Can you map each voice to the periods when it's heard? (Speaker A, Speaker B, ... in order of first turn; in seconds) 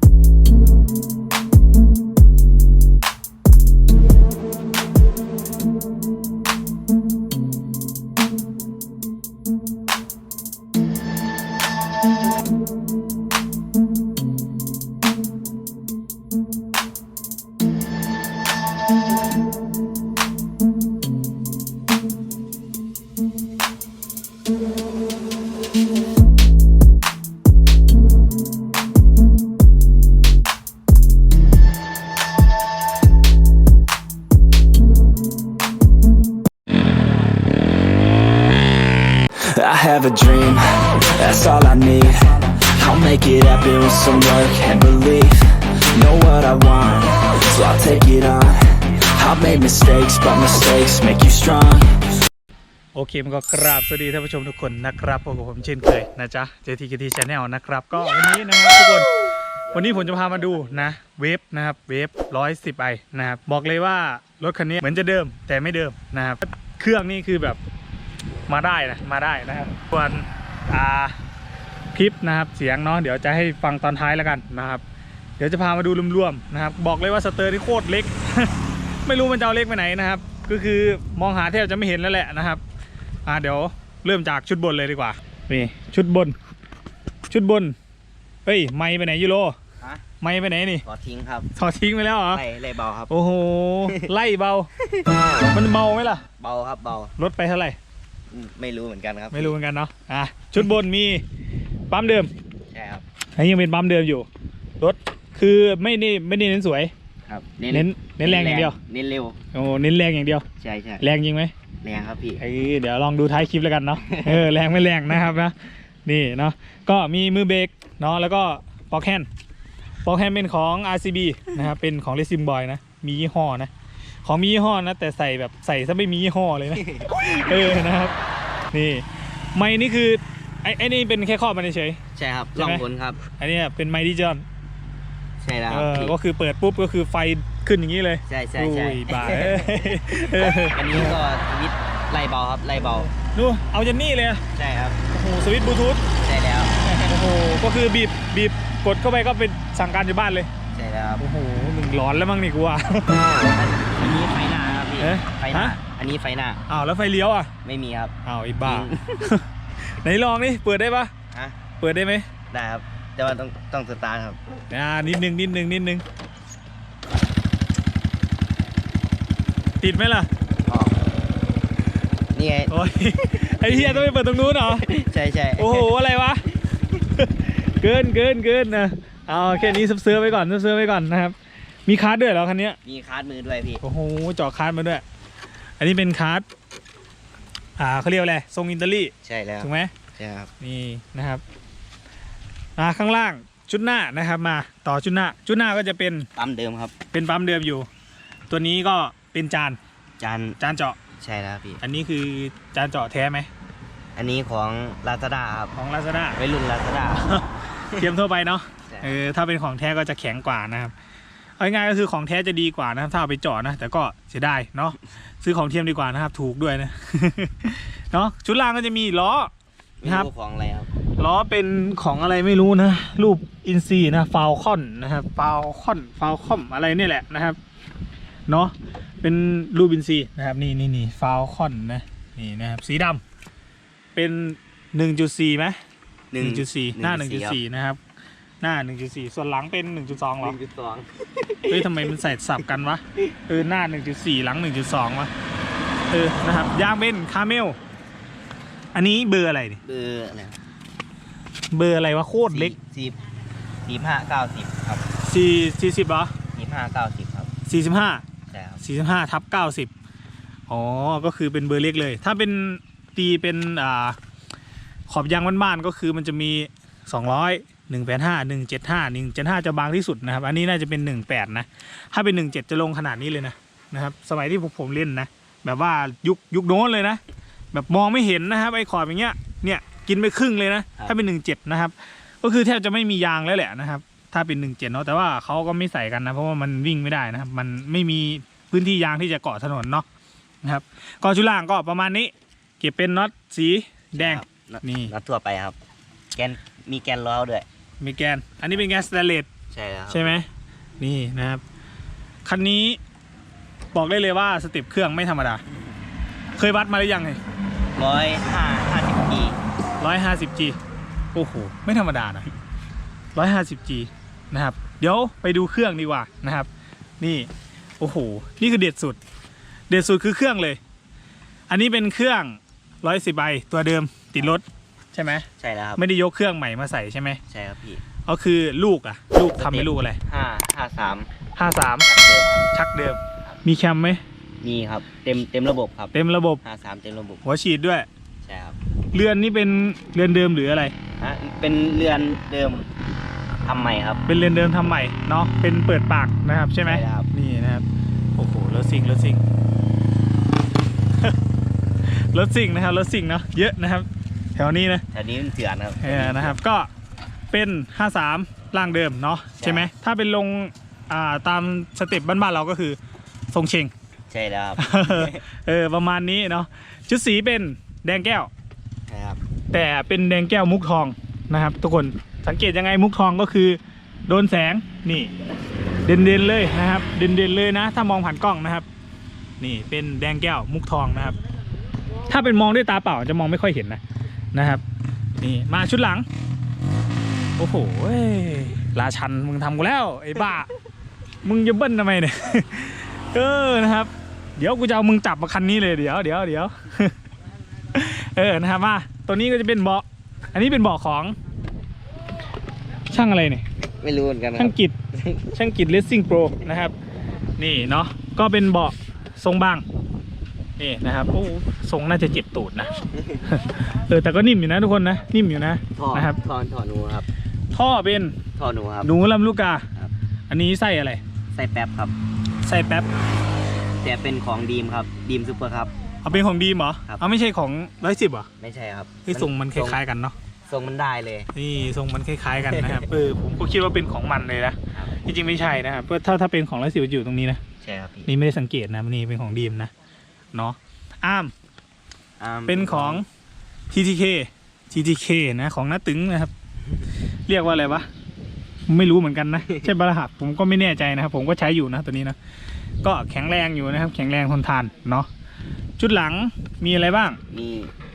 Speaker A: 39.4-52.0
Speaker B: 52.9-59.1, 59.7-67.6, 68.5-71.2, 71.9-74.8, 75.4-82.6, 83.2-86.3, 87.3-87.8, 88.5-89.6, 90.2-90.8, 91.5-92.4, 93.1-94.7, 95.5-96.2, 97.2-97.8, 99.3-101.2, 101.9-102.3, 103.4-104.3, 104.8-106.9, 107.7-108.8, 109.5-110.5, 111.0-111.5, 112.4-119.3, 120.0-123.7, 124.2-128.2, 128.7-132.0, 132.6-134.4, 135.7-141.2, 143.1-144.4, 145.1-146.0, 146.9-150.5, 151.2-153.2, 155.0-155.8, 156.7-157.5, 158.2-161.1, 161.8-162.3, 164.7-166.0, 169.8-170.3, 172.7-174.9, 175.6-181.3, 181.9-182.8, 183.8-185.0, 185.8-186.4, 187.8-189.9, 190.6-191.4, 192.8-196.3, 197.1-197.9, 198.5-199.8, 200.6-201.0, 201.8-203.5, 205.8-206.4, 207.2-210.9, 211.6-219.5, 220.0-220.3, 221.2-227.6, 228.5-233.2, 234.2-235.8, 236.4-238.0, 238.6-240.6, 241.7-245.3, 246.1-247.8, 248.9-249.8, 251.7-252.7, 255.2-256.3, 257.7-258.2, 258.8-259.9, 260.7-264.2, 265.1-277.2, 277.7-290.1, 290.6-295.1, 298.0-299.5, 300.1-300.5, 301.0-301.6, 302.4-303.0, 303.9-305.6, 306.6-307.4, 310.0-310.8, 311.3-312.5, 313.4-316.7, 317.2-317.5, 318.0-319.2, 319.9-320.8, 321.7-327.4, 328.2-330.2, 331.6-332.1, 332.7-334.2, 336.1-336.6, 337.4-338.1, 339.1-340.9, 344.3-349.4, 352.1-355.0, 356.0-356.9, 357.5-363.0, 363.5-363.9, 364.8-368.5, 369.7-375.3, 376.1-378.9, 379.6-381.4, 382.3-384.0, 384.5-384.8, 385.4-386.3, 387.6-390.7, 391.4-397.2, 397.9-401.4, 403.1-403.6, 404.6-405.0, 405.5-406.9, 407.6-409.8, 410.8-416.4, 417.7-418.4, 419.0-419.9, 420.5-421.2, 422.6-423.1, 426.2-428.5, 429.2-430.4, 431.5-437.6, 438.3-439.9, 440.5-441.5, 442.7-443.2, 443.9-446.5, 447.5-448.1, 448.9-452.4, 453.0-455.3, 456.0-457.4
Speaker C: 59.7-60.6, 90.8-91.5, 92.3-93.1, 96.4-97.1, 98.3-99.5, 102.7-103.0, 107.3-109.4, 110.6-111.0, 111.8-112.4, 114.1-114.5, 132.2-133.2, 135.4-136.1, 138.3-143.1, 144.6-145.0, 146.2-147.1, 150.7-151.2, 153.4-156.6, 157.6-159.3, 162.5-164.4, 170.7-171.1, 172.3-172.7, 173.5-174.1, 174.8-175.9, 182.8-183.8, 189.2-190.5, 196.4-196.9, 200.2-200.6, 201.2-201.8, 204.2-205.7, 206.3-207.3, 208.9-209.2, 220.0-220.9, 236.3-237.6, 240.4-242.2, 249.8-250.6, 252.5-253.2, 253.9-255.1, 256.5-257.5, 258.5-258.8, 294.1-295.8, 296.4-297.7, 299.7-300.4, 308.0-309.6, 325.6-326.0, 327.5-328.0, 329.6-331.3, 332.0-332.7, 334.6-337.4, 338.4-338.8, 341.2-342.9, 343.6-344.2, 346.8-347.3, 355.1-356.6, 359.6-359.9, 364.3-365.4, 369.1-369.4, 404.0-405.5, 415.9-417.3, 418.6-419.1, 421.5-422.1, 423.8-425.9, 428.6-430.0, 430.7-431.5, 432.7-433.1, 437.8-438.3, 442.4-443.2, 457.5-457.9